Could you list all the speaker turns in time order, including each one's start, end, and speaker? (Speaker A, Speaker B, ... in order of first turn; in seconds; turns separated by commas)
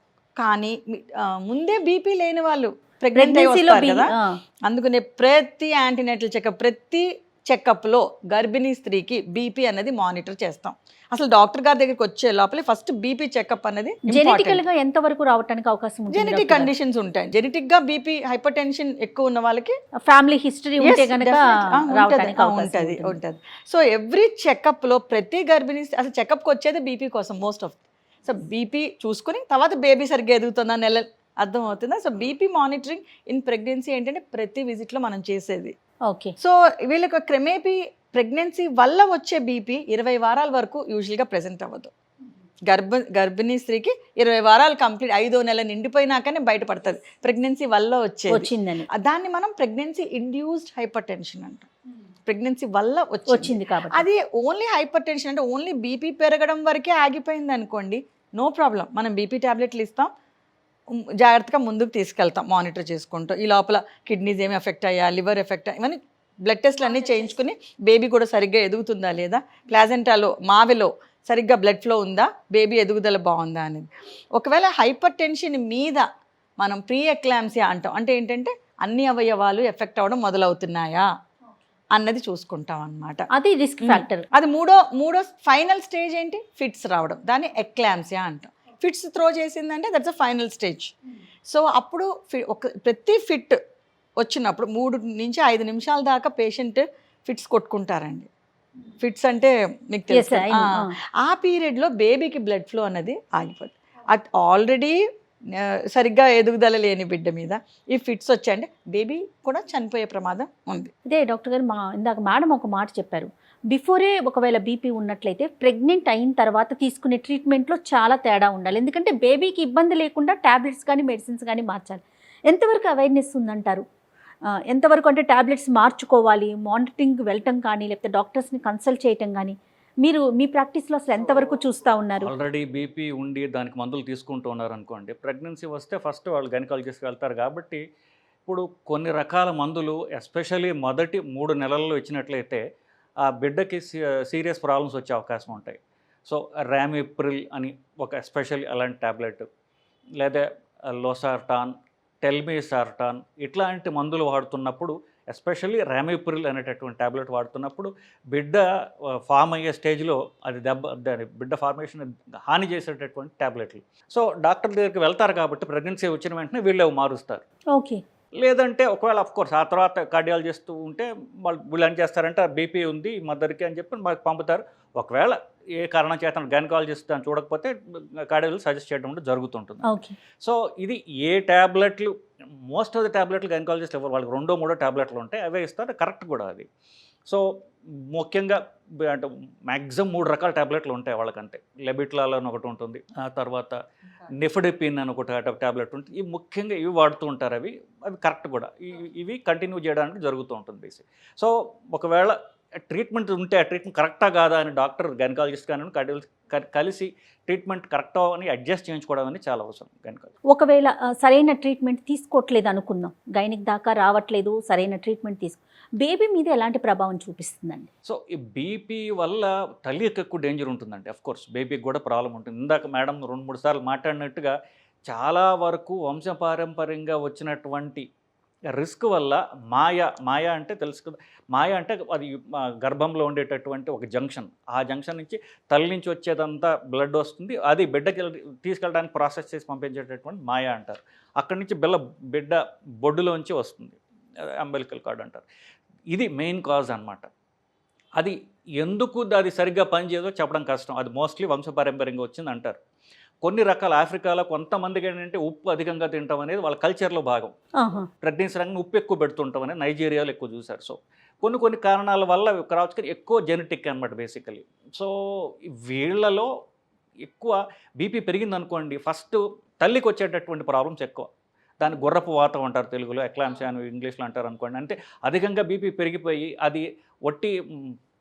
Speaker A: 0.4-4.1, Speaker B: 3.1-4.4, Speaker A: 4.7-14.6, Speaker B: 14.1-16.7, Speaker A: 16.1-19.7, Speaker B: 20.0-23.2, Speaker A: 20.8-35.7, Speaker B: 36.1-36.4, Speaker A: 36.4-41.9, Speaker A: 42.7-51.7, Speaker B: 48.3-48.9, Speaker A: 52.3-60.1, Speaker B: 53.3-54.1, Speaker A: 61.2-76.0, Speaker A: 76.6-81.1, Speaker A: 81.9-83.3, Speaker B: 83.3-84.2, Speaker A: 83.8-90.9, Speaker A: 91.5-93.6, Speaker A: 94.2-98.3, Speaker A: 99.0-105.0, Speaker B: 100.1-100.9, Speaker A: 105.6-110.9, Speaker B: 111.0-123.8, Speaker B: 124.7-132.3, Speaker C: 132.2-137.8, Speaker C: 138.5-142.6, Speaker C: 143.2-149.4, Speaker C: 150.2-158.6, Speaker C: 159.2-167.4, Speaker B: 167.7-168.0, Speaker C: 168.4-179.8, Speaker B: 179.8-180.2, Speaker C: 180.4-182.1, Speaker C: 182.7-186.7, Speaker C: 188.1-193.8, Speaker C: 194.4-202.3, Speaker C: 202.9-210.3, Speaker B: 210.5-217.9, Speaker C: 218.1-224.5, Speaker C: 225.1-228.1, Speaker C: 228.7-244.0, Speaker C: 244.6-245.4, Speaker C: 246.1-247.3, Speaker C: 248.2-252.8, Speaker C: 253.4-257.5, Speaker B: 257.8-258.1, Speaker C: 258.2-266.5, Speaker C: 267.2-271.3, Speaker C: 271.8-277.9